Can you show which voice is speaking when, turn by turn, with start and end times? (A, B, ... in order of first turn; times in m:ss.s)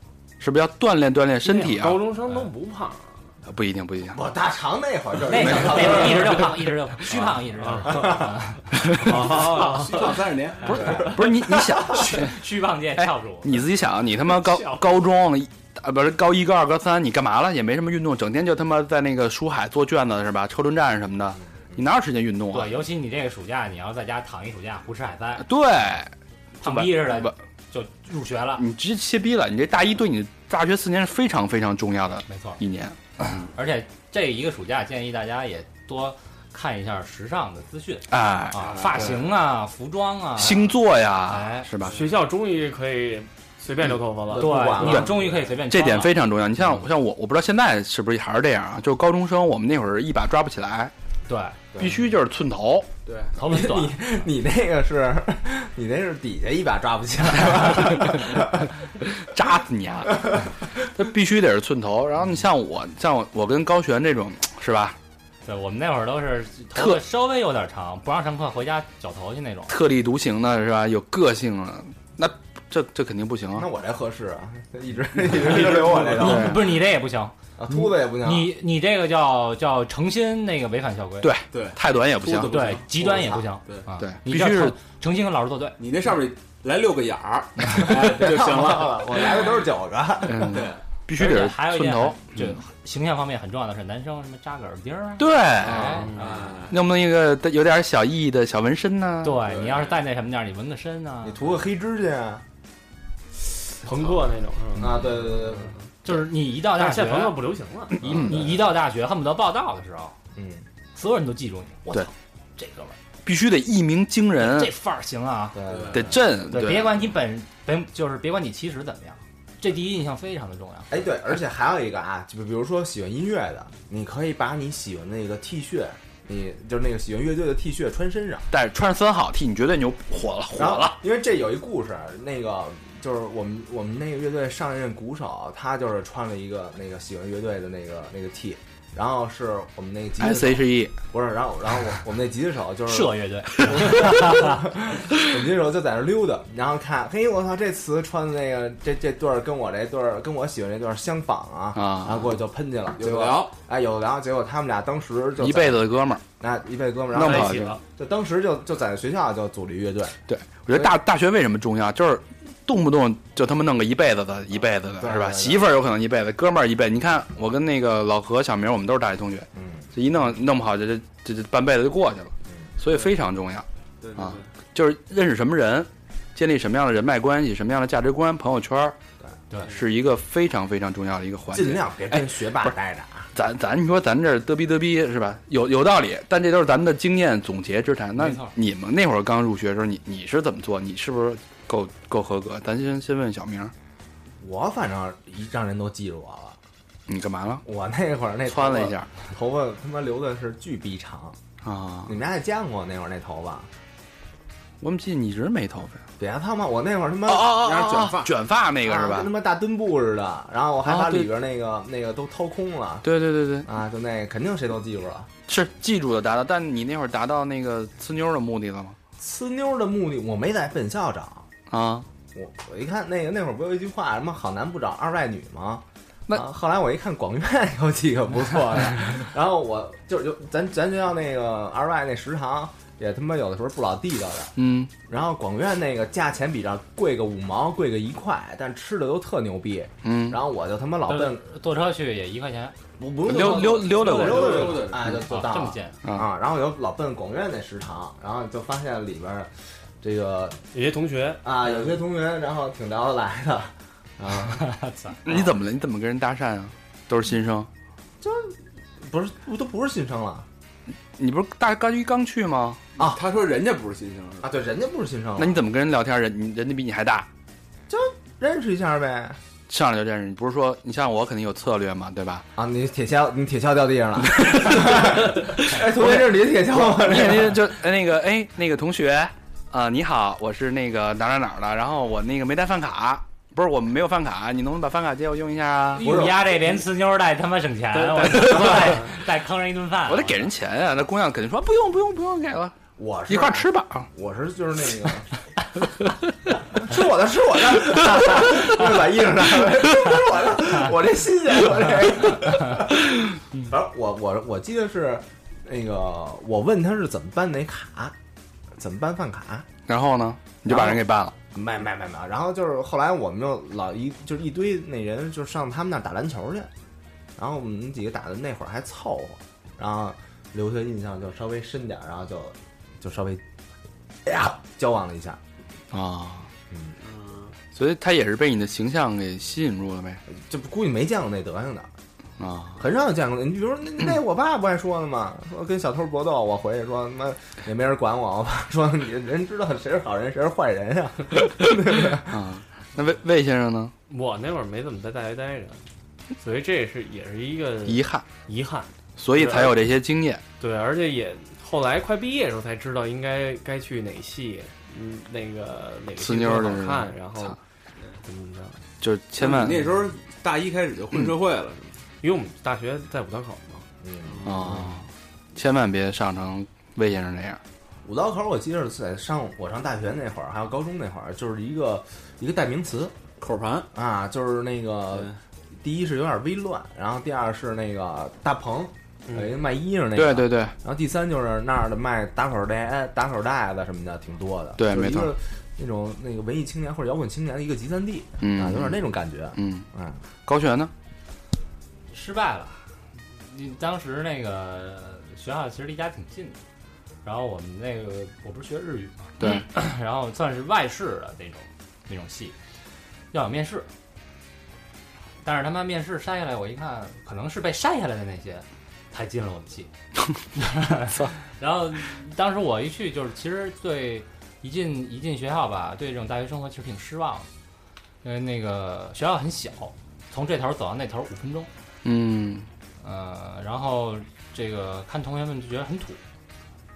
0:00.4-0:02.0 A
0:01.4-0:03.2 B
0:03.4-0:04.2 A
0:04.1-0:06.5 C
0:05.3-0:09.8 D
0:05.5-0:06.1 A
0:07.6-0:08.3 B
0:08.8-0:09.1 A
0:08.9-0:10.1 B
0:09.1-0:11.1 E
0:10.7-0:11.7 C
0:10.8-0:12.4 A
0:11.7-0:13.6 D
0:13.0-0:22.8 A
0:14.4-0:14.9 D
0:21.5-0:21.8 C
0:22.5-0:25.4 D
0:25.4-0:27.3 A
0:26.6-0:28.6 D
0:28.6-0:33.4 A
0:32.3-0:32.6 D
0:33.2-0:40.7 D
0:38.1-0:39.1 A
0:38.7-0:39.2 E
0:40.4-0:42.0 A
0:41.3-0:41.8 D
0:41.9-0:45.0 B
0:44.3-0:45.2 C
0:44.3-0:46.2 D
0:44.8-0:50.9 A
0:51.3-0:51.6 D
0:51.7-0:52.1 C
0:51.8-0:52.9 A
0:53.0-0:53.3 E
0:53.4-0:54.0 D
0:53.4-0:58.7 C
0:57.5-0:58.5 A
0:59.0-1:05.0 A
1:05.4-1:09.7 D
1:06.7-1:07.0 A
1:09.7-1:13.7 A
1:13.5-1:16.6 C
1:15.4-1:16.3 E
1:16.1-1:17.3 D
1:16.2-1:16.6 A
1:17.6-1:18.5 C
1:18.2-1:21.3 D
1:21.2-1:22.6 A
1:21.5-1:23.9 E
1:22.4-1:25.8 D
1:24.0-1:24.8 A
1:25.8-1:29.5 E
1:27.7-1:30.6 C
1:30.3-1:32.6 A
1:30.5-1:30.8 E
1:31.2-1:36.5 D
1:35.2-1:36.1 A
1:35.8-1:36.7 E
1:36.7-1:39.5 A
1:39.2-1:41.4 D
1:39.5-1:40.0 E
1:41.2-1:42.4 C
1:43.8-1:45.5 B
1:43.9-1:44.2 E
1:44.8-1:45.7 C
1:46.0-1:47.4 D
1:46.7-1:48.5 B
1:48.0-1:48.4 C
1:48.1-1:48.4 A
1:48.2-1:50.1 D
1:50.3-1:50.6 C
1:50.9-1:52.9 D
1:53.2-1:54.7 A
1:54.4-1:55.6 D
1:55.5-1:56.7 C
1:55.7-1:56.1 E
1:55.9-1:56.9 A
1:56.5-2:01.0 D
2:00.9-2:08.4 C
2:08.5-2:11.0 A
2:10.5-2:35.9 C
2:20.2-2:20.9 A
2:22.9-2:24.6 D
2:31.7-2:32.3 A
2:33.0-2:33.6 E
2:35.4-2:36.2 A
2:36.4-2:40.2 C
2:37.1-2:37.7 A
2:37.1-2:37.8 B
2:40.3-2:53.6 A
2:45.0-2:45.7 C
2:49.5-2:49.8 C
2:54.0-2:54.5 E
2:54.2-2:59.0 A
2:59.6-3:02.2 A
3:01.5-3:03.3 C
3:03.3-3:13.7 A
3:08.2-3:08.5 D
3:14.4-3:16.6 C
3:17.1-3:17.6 A
3:17.6-3:21.4 C
3:18.5-3:19.1 A
3:21.6-3:22.2 A
3:22.0-3:23.7 C
3:24.8-3:26.0 A
3:26.2-3:27.5 C
3:27.3-3:29.3 A
3:27.5-3:28.3 E
3:28.8-3:33.1 C
3:30.8-3:31.3 A
3:33.0-3:33.7 A
3:33.6-3:35.3 C
3:35.5-3:39.0 A
3:39.2-3:41.5 C
3:41.7-3:42.1 A
3:42.3-3:54.5 C
3:54.6-3:54.9 A
3:55.1-4:01.4 C
4:00.0-4:00.4 A
4:01.1-4:02.7 D
4:03.0-4:09.5 C
4:03.2-4:04.9 A
4:03.8-4:05.0 E
4:04.0-4:06.0 D
4:10.0-4:10.6 C
4:10.7-4:11.5 B
4:11.4-4:14.7 C
4:14.6-4:15.2 D
4:15.2-4:17.7 A
4:18.2-4:20.4 C
4:21.2-4:22.8 A
4:23.0-4:24.5 E
4:24.4-4:25.6 C
4:25.4-4:27.3 A
4:27.9-4:29.4 C
4:29.7-4:32.4 A
4:32.6-4:37.6 C
4:34.3-4:46.2 A
4:45.9-4:50.5 D
4:46.0-4:46.5 C
4:47.9-4:49.1 B
4:48.5-4:49.0 A
4:50.1-4:52.8 A
4:53.0-4:55.2 C
4:53.3-4:54.1 A
4:56.7-5:03.0 C
5:03.6-5:08.1 C
5:08.8-5:09.7 C
5:09.9-5:11.3 A
5:10.6-5:11.0 C
5:11.5-5:16.7 C
5:17.4-5:23.4 C
5:24.2-5:25.4 C
5:25.9-5:26.5 A
5:26.7-5:27.0 C
5:27.1-5:27.5 E
5:27.7-5:30.2 A
5:30.3-5:31.9 C
5:32.4-5:32.8 A
5:32.8-5:42.3 C
5:42.1-5:43.9 A
5:44.1-5:45.8 B
5:46.4-5:49.9 B
5:47.8-5:48.3 A
5:49.2-5:50.4 A
5:50.6-5:57.6 B
5:56.2-5:57.5 A
5:58.2-5:58.8 B
5:59.0-5:59.8 A
5:59.4-6:02.0 E
6:02.2-6:03.8 B
6:04.0-6:04.9 C
6:04.4-6:07.6 A
6:08.0-6:13.1 C
6:13.4-6:13.9 E
6:13.9-6:30.2 C
6:20.2-6:20.7 A
6:24.8-6:25.3 A
6:28.4-6:29.0 A
6:29.5-6:29.8 A
6:30.4-6:30.9 A
6:32.1-6:32.8 D
6:33.5-6:36.6 D
6:37.2-6:42.5 D
6:39.4-6:39.7 A
6:43.3-6:43.9 D
6:45.4-6:49.9 D
6:50.5-6:57.5 D
6:51.1-6:51.4 A
6:58.2-7:01.7 D
7:02.0-7:02.7 A
7:03.0-7:06.2 D